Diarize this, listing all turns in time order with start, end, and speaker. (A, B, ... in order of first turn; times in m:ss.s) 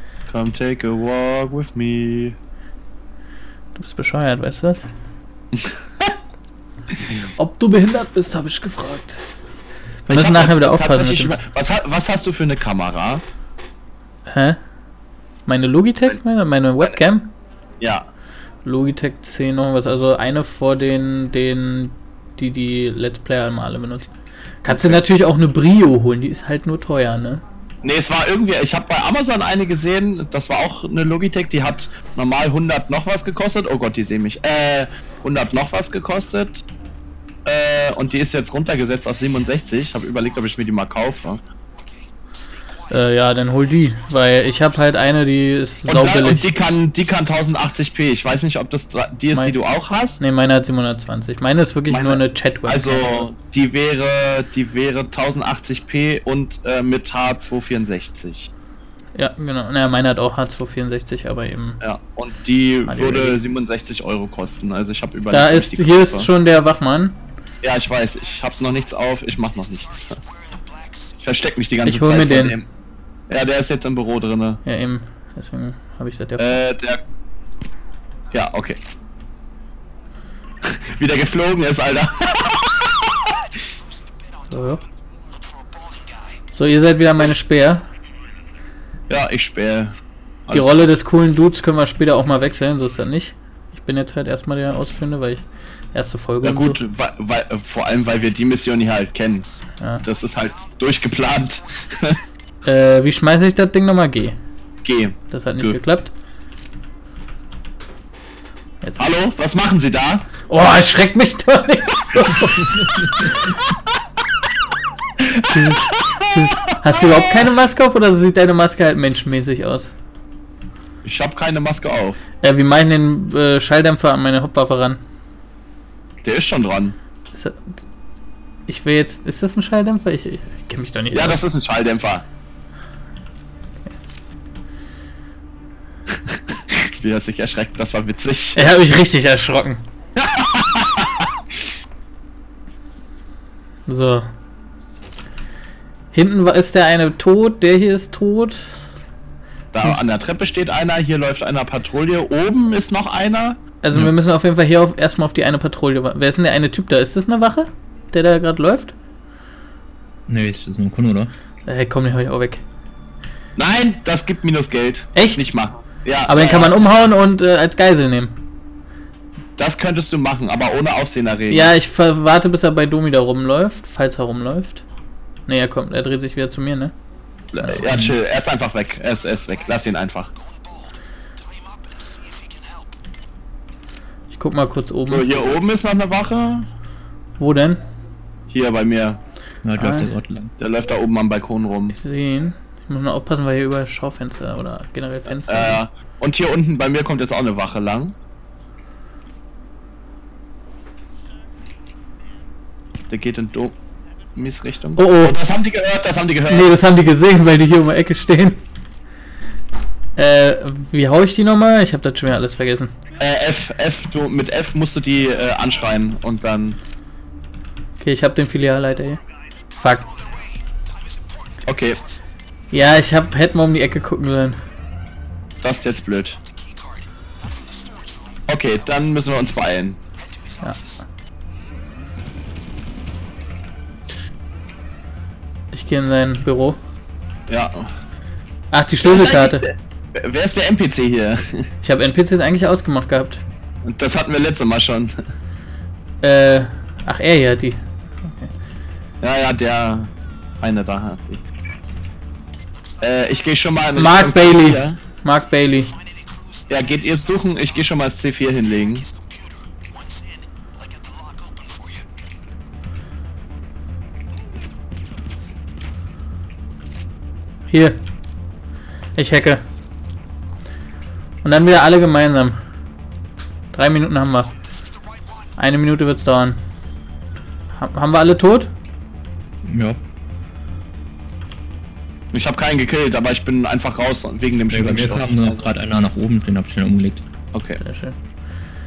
0:00.3-0:02.4 A
0:03.8-0:04.9 B
0:05.5-0:06.1 A
0:07.4-0:09.2 B
0:10.1-0:11.4 B
0:10.1-0:13.2 A
0:14.3-0:14.6 B
0:15.5-0:17.3 B
0:17.8-0:18.1 A
0:18.6-0:24.1 B
0:24.6-0:27.4 B
0:24.7-0:25.0 A
0:27.8-0:36.6 A
0:37.4-0:41.4 A
0:42.9-0:46.4 B
0:45.9-0:50.2 A
0:50.2-0:53.2 B
0:51.9-0:58.5 A
0:59.2-1:01.8 B
1:01.8-1:06.3 A
1:02.9-1:03.4 B
1:05.3-1:07.2 B
1:07.6-1:10.2 A
1:11.2-1:12.7 A
1:11.8-1:12.6 B
1:13.3-1:14.6 A
1:14.7-1:16.6 B
1:16.4-1:17.0 A
1:18.3-1:18.8 A
1:20.6-1:23.3 A
1:24.5-1:24.8 B
1:26.6-1:27.8 B
1:29.1-1:30.9 A
1:30.5-1:36.8 B
1:36.4-1:39.5 A
1:40.0-1:42.2 A
1:42.6-1:44.4 B
1:44.8-1:45.8 A
1:45.3-1:46.1 B
1:48.8-1:49.1 B
1:49.0-1:50.3 A
1:50.5-1:53.6 B
1:55.4-1:59.9 B
1:55.8-1:56.2 A
2:01.0-2:02.2 A
2:02.4-2:05.0 B
2:06.2-2:07.0 A
2:07.3-2:07.8 B
2:08.7-2:11.4 B
2:11.1-2:12.2 A
2:16.3-2:18.7 A
2:18.6-2:19.8 B
2:20.2-2:21.3 A
2:23.9-2:24.3 B
2:26.1-2:28.8 B
2:29.7-2:33.6 A
2:33.8-2:38.9 B
2:40.3-2:41.3 C
2:41.7-2:42.6 B
2:43.6-2:46.8 A
2:45.2-2:45.5 B
2:46.3-2:48.4 B
2:49.6-2:51.8 A
2:51.5-2:54.8 B
2:55.5-2:56.9 B
2:57.5-3:00.3 A
2:57.6-2:57.9 B
3:04.3-3:05.3 B
3:05.1-3:06.7 A
3:07.4-3:07.8 B
3:08.5-3:09.2 A
3:09.6-3:10.5 C
3:09.8-3:10.1 B
3:10.6-3:12.0 A
3:11.9-3:15.8 B
3:15.3-3:18.2 A
3:23.1-3:23.8 A
3:24.4-3:26.7 A
3:25.0-3:25.4 B
3:26.5-3:28.6 B
3:30.2-3:32.9 B
3:33.2-3:36.8 A
3:38.0-3:39.2 B
3:39.8-3:40.1 B
3:41.6-3:42.0 A
3:42.7-3:44.6 B
3:45.6-3:46.4 A
3:48.5-3:50.0 A
3:55.7-3:56.8 B
3:57.5-3:57.9 A
3:58.7-3:59.6 B
3:59.0-4:01.7 A
4:01.8-4:03.4 B
4:03.8-4:05.1 A
4:06.2-4:08.5 B
4:09.2-4:11.4 A
4:13.0-4:15.0 A
4:14.0-4:16.0 B
4:16.7-4:19.1 A
4:27.7-4:28.0 B
4:29.2-4:29.6 B
4:31.4-4:32.6 B
4:33.7-4:34.5 B
4:35.6-4:36.6 B
4:37.7-4:38.7 B
4:39.6-4:40.0 C
4:42.3-4:45.6 A
4:44.7-4:47.2 C
4:47.5-4:47.8 A
4:47.8-4:48.2 B